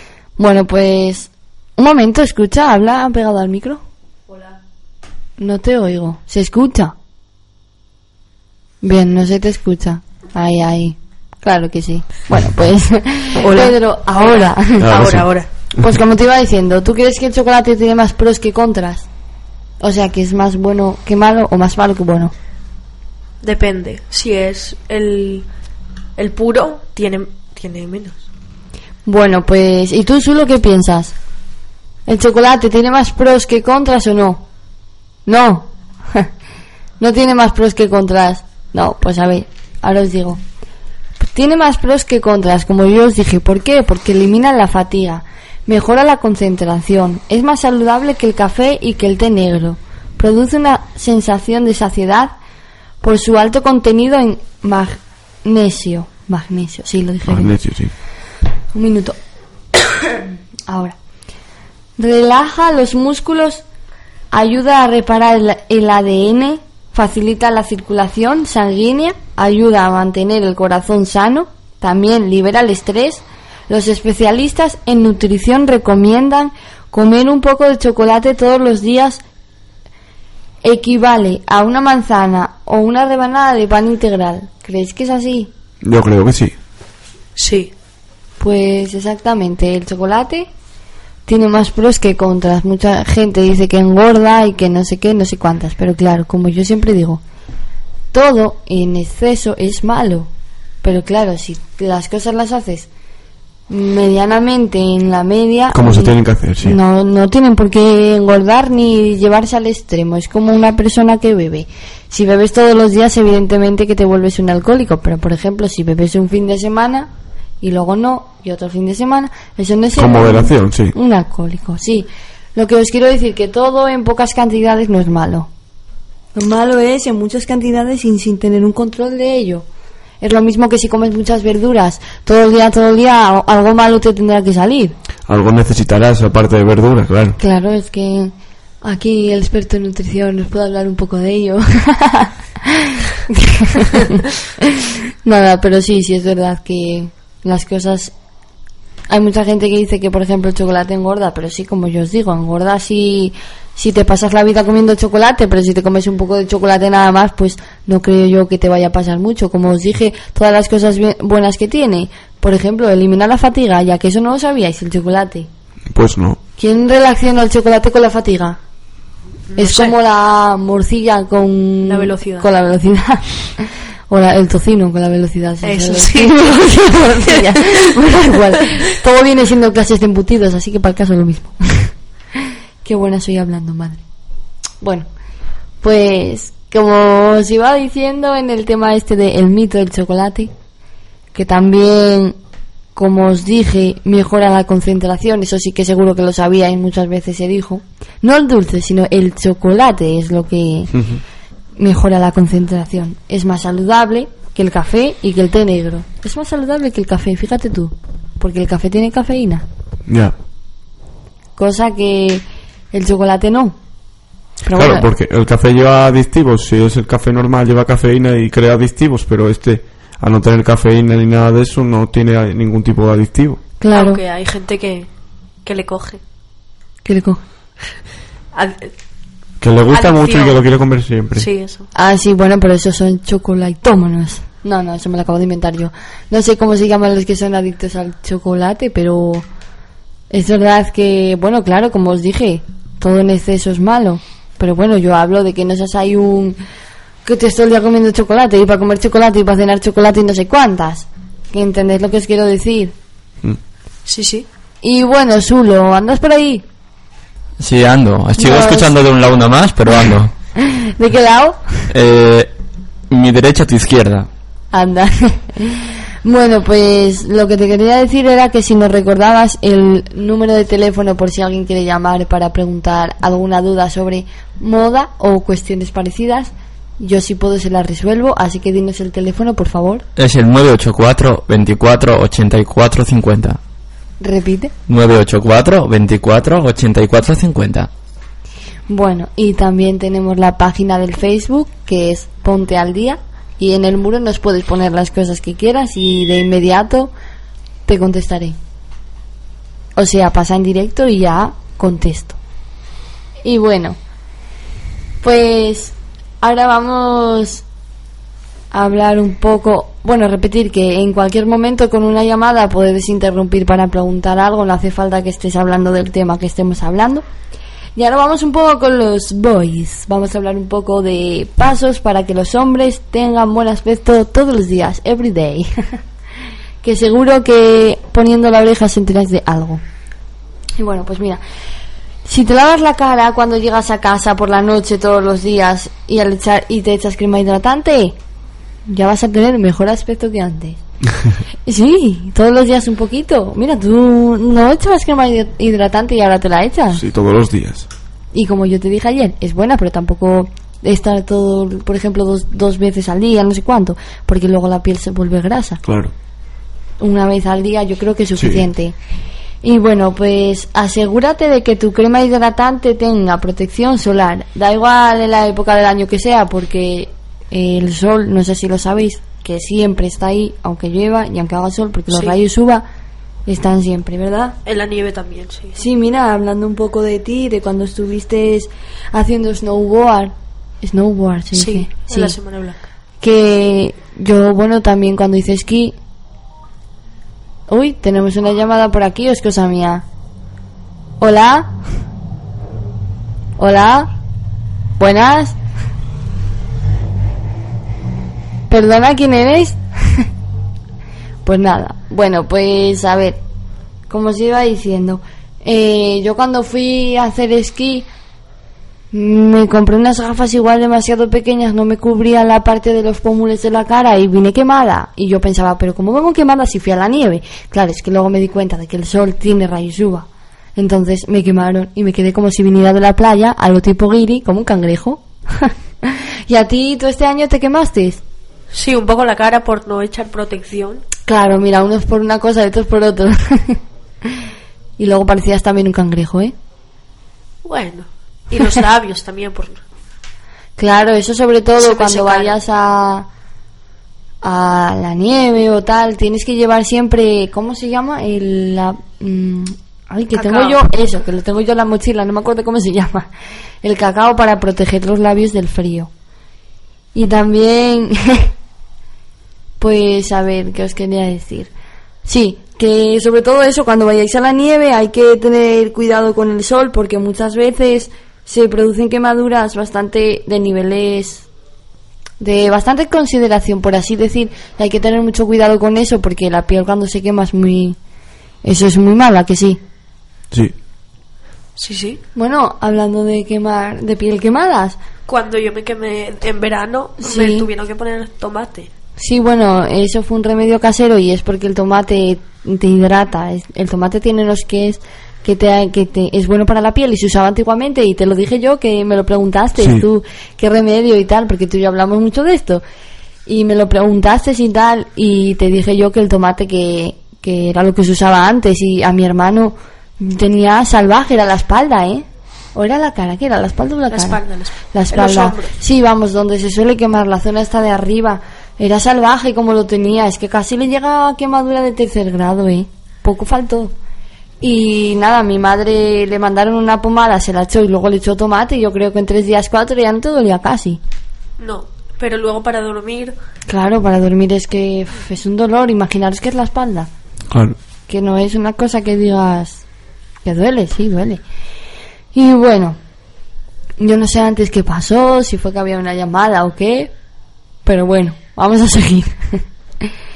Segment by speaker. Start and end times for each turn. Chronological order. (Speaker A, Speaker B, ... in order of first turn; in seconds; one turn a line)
Speaker A: 0.4-3.8
Speaker A: 5.4-6.9
Speaker A: 8.8-15.1
Speaker B: 12.3-12.6
Speaker C: 13.4-15.5
Speaker B: 14.8-15.3
Speaker A: 15.8-19.1
Speaker A: 19.8-22.3
Speaker C: 23.4-25.4
Speaker C: 26.2-28.2
Speaker A: 29.1-31.1
Speaker A: 32.1-34.4
Speaker A: 35.2-36.3
Speaker A: 37.0-40.4
Speaker A: 41.2-52.3
Speaker A: 53.0-57.5
Speaker B: 57.2-57.9
Speaker A: 58.7-59.2
Speaker A: 60.0-61.0
Speaker A: 62.0-63.6
Speaker A: 64.3-79.2
Speaker A: 80.6-85.5
Speaker B: 85.8-86.5
Speaker C: 87.4-87.7
Speaker A: 88.4-90.5
Speaker A: 91.3-97.2
Speaker A: 98.1-100.3
Speaker A: 100.8-102.9
Speaker A: 103.7-125.5
Speaker B: 105.7-106.8
Speaker B: 119.9-120.9
Speaker A: 126.3-129.7
Speaker A: 130.2-134.9
Speaker B: 135.3-137.4
Speaker A: 137.4-142.3
Speaker A: 142.8-144.6
Speaker A: 145.2-148.1
Speaker A: 149.1-165.5
Speaker B: 165.9-166.4
Speaker A: 166.6-168.6
Speaker C: 169.5-169.9
Speaker A: 169.6-173.3
Speaker C: 171.9-172.5
Speaker A: 174.1-181.9
Speaker C: 175.6-178.8
Speaker A: 182.8-184.0
Speaker A: 184.8-185.1
Speaker A: 185.8-190.5
Speaker A: 191.3-192.4
Speaker A: 192.9-200.9
Speaker B: 200.9-201.2
Speaker A: 201.8-209.6
Speaker B: 210.1-210.3
Speaker A: 211.6-213.7
Speaker A: 214.6-215.1
Speaker B: 214.7-223.6
Speaker A: 223.8-224.2
Speaker C: 223.9-225.1
Speaker C: 225.6-226.2
Speaker A: 227.0-227.4
Speaker C: 228.5-228.9
Speaker B: 229.6-231.5
Speaker C: 229.9-230.6
Speaker C: 231.3-231.9
Speaker A: 231.9-239.4
Speaker A: 240.3-246.6
Speaker A: 247.2-252.9
Speaker C: 254.1-254.5
Speaker A: 254.8-256.6
Speaker D: 257.6-260.3
Speaker A: 258.4-258.9
Speaker A: 260.6-261.6
Speaker D: 261.9-262.5
Speaker D: 263.1-264.3
Speaker A: 264.7-280.0
Speaker D: 280.2-283.6
Speaker A: 284.2-284.7
Speaker D: 284.9-287.9
Speaker A: 288.9-297.1
Speaker A: 297.9-298.6
Speaker A: 299.9-302.4
Speaker A: 303.4-304.0
Speaker A: 305.2-307.6
Speaker A: 308.7-317.2
Speaker A: 317.9-325.7
Speaker A: 326.8-329.8
Speaker A: 330.8-331.4
Speaker A: 332.2-338.1
Speaker A: 338.9-340.8
Speaker A: 341.6-347.0
Speaker B: 346.9-347.9
Speaker A: 348.3-355.8
Speaker B: 355.8-356.1
Speaker A: 357.0-358.9
Speaker B: 358.4-358.7
Speaker A: 359.6-372.9
Speaker C: 372.1-372.4
Speaker A: 373.5-374.6
Speaker C: 374.6-375.8
Speaker A: 375.7-382.4
Speaker C: 381.5-382.8
Speaker A: 383.2-385.9
Speaker A: 387.7-390.0
Speaker A: 391.2-391.7
Speaker A: 393.6-394.1
Speaker A: 395.0-395.5
Speaker A: 398.7-400.2
Speaker A: 401.4-403.4
Speaker A: 404.1-408.1
Speaker A: 409.1-428.2
Speaker C: 428.7-431.0
Speaker A: 431.3-433.8
Speaker A: 435.0-436.5
Speaker C: 437.6-439.8
Speaker A: 440.8-443.3
Speaker C: 441.8-442.6
Speaker A: 444.4-453.3
Speaker C: 450.3-450.8
Speaker A: 453.8-456.1
Speaker A: 457.1-458.5
Speaker A: 459.8-461.7
Speaker A: 462.2-471.4
Speaker A: 472.4-478.0
Speaker A: 478.6-479.8
Speaker C: 481.8-482.2
Speaker A: 482.4-485.0
Speaker C: 485.3-488.9
Speaker A: 487.2-487.6
Speaker A: 489.2-502.8
Speaker B: 499.8-500.1
Speaker A: 503.5-514.4
Speaker C: 514.1-515.8
Speaker A: 514.9-523.9
Speaker A: 524.6-531.0
Speaker C: 531.6-533.4
Speaker A: 533.7-537.1
Speaker B: 537.5-537.8
Speaker A: 538.1-539.8
Speaker A: 540.4-541.4
Speaker A: 542.3-543.0
Speaker A: 544.0-547.1
Speaker A: 547.9-549.3